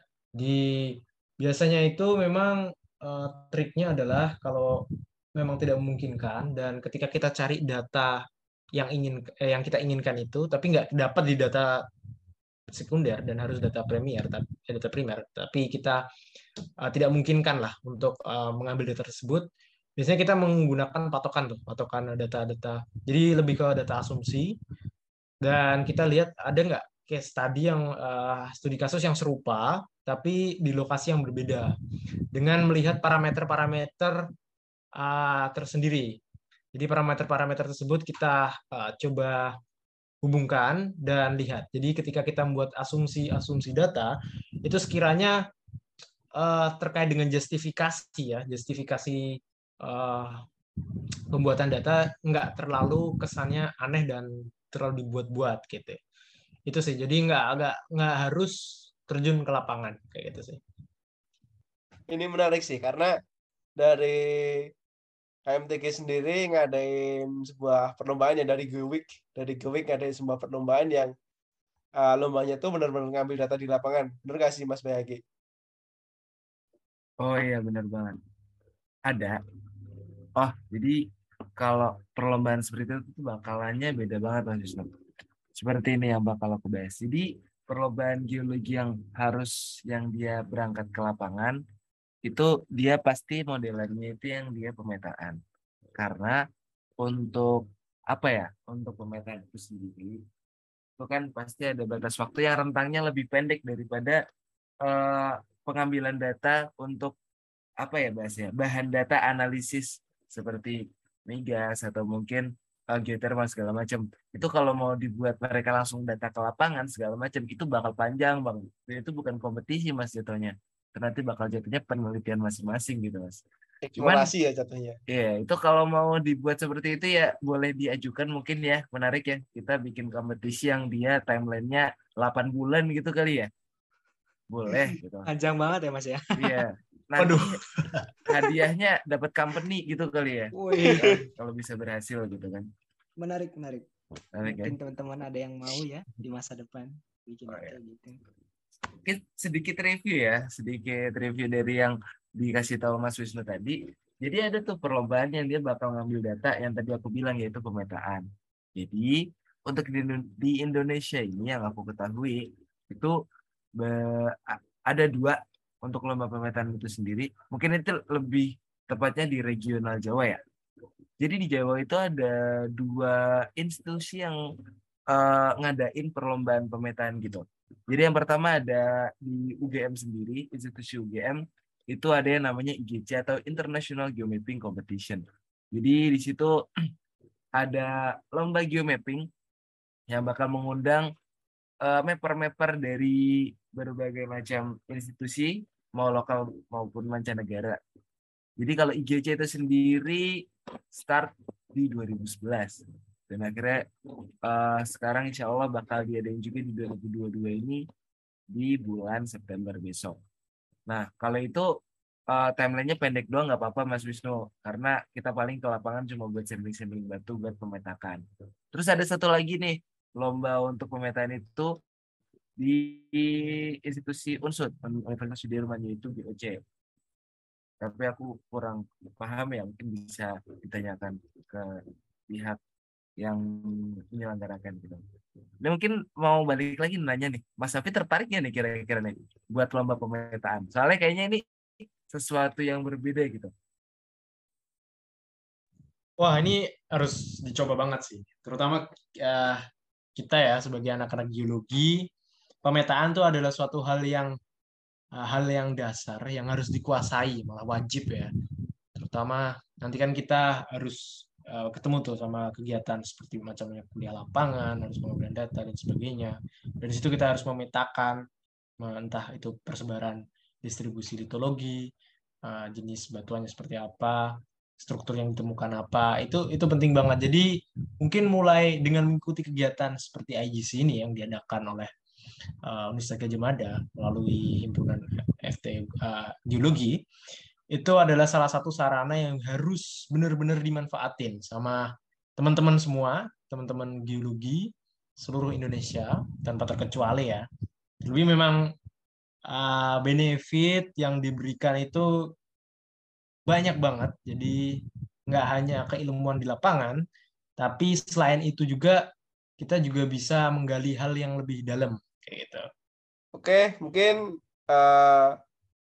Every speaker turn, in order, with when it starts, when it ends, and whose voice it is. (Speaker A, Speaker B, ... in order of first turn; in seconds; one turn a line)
Speaker A: 0.4-11.8
Speaker A: 12.7-16.0
Speaker A: 16.8-24.6
Speaker A: 25.4-31.8
Speaker A: 32.3-34.3
Speaker A: 35.0-36.2
Speaker A: 36.7-39.6
Speaker A: 40.2-45.4
Speaker A: 46.4-50.5
Speaker A: 51.3-56.0
Speaker A: 56.7-60.6
Speaker B: 62.1-63.1
Speaker B: 63.8-64.7
Speaker B: 65.5-71.1
Speaker B: 72.0-75.2
Speaker C: 77.2-78.2
Speaker C: 79.1-79.4
Speaker C: 80.4-81.0
Speaker C: 81.6-84.9
Speaker C: 85.6-91.6
Speaker C: 92.3-95.4
Speaker C: 96.0-96.4
Speaker C: 97.0-100.2
Speaker C: 101.0-104.2
Speaker C: 104.8-107.1
Speaker C: 107.8-123.4
Speaker B: 123.8-125.0
Speaker C: 124.0-124.3
Speaker C: 125.1-133.5
Speaker C: 134.5-135.3
Speaker D: 134.7-136.7
Speaker C: 136.4-137.6
Speaker A: 137.2-138.2
Speaker C: 138.3-142.7
Speaker D: 140.6-141.3
Speaker D: 143.2-143.9
Speaker C: 144.3-144.7
Speaker D: 144.4-148.2
Speaker C: 147.5-147.8
Speaker C: 149.0-159.2
Speaker C: 159.7-163.1
Speaker C: 163.8-170.4
Speaker C: 171.2-174.4
Speaker C: 175.1-186.5
Speaker C: 187.6-189.3
Speaker C: 190.1-191.1
Speaker C: 191.8-197.8
Speaker C: 198.6-200.3
Speaker C: 200.9-203.8
Speaker C: 204.4-207.8
Speaker C: 208.5-210.2
Speaker C: 210.9-211.7
Speaker C: 212.3-218.2
Speaker C: 218.7-221.7
Speaker C: 222.6-226.6
Speaker C: 227.8-231.7
Speaker C: 232.3-232.6
Speaker C: 233.2-235.0
Speaker C: 235.6-241.4
Speaker C: 242.1-243.5
Speaker A: 246.2-249.6
Speaker A: 250.2-252.1
Speaker A: 252.6-254.3
Speaker A: 255.2-258.3
Speaker A: 258.9-268.2
Speaker A: 268.8-271.9
Speaker A: 272.4-277.5
Speaker A: 278.0-281.9
Speaker A: 282.7-287.0
Speaker A: 287.7-291.8
Speaker A: 292.4-297.5
Speaker A: 298.0-298.7
Speaker A: 299.5-302.1
Speaker A: 303.5-307.0
Speaker A: 307.6-309.1
Speaker A: 309.6-312.7
Speaker B: 313.4-314.2
Speaker B: 314.7-315.4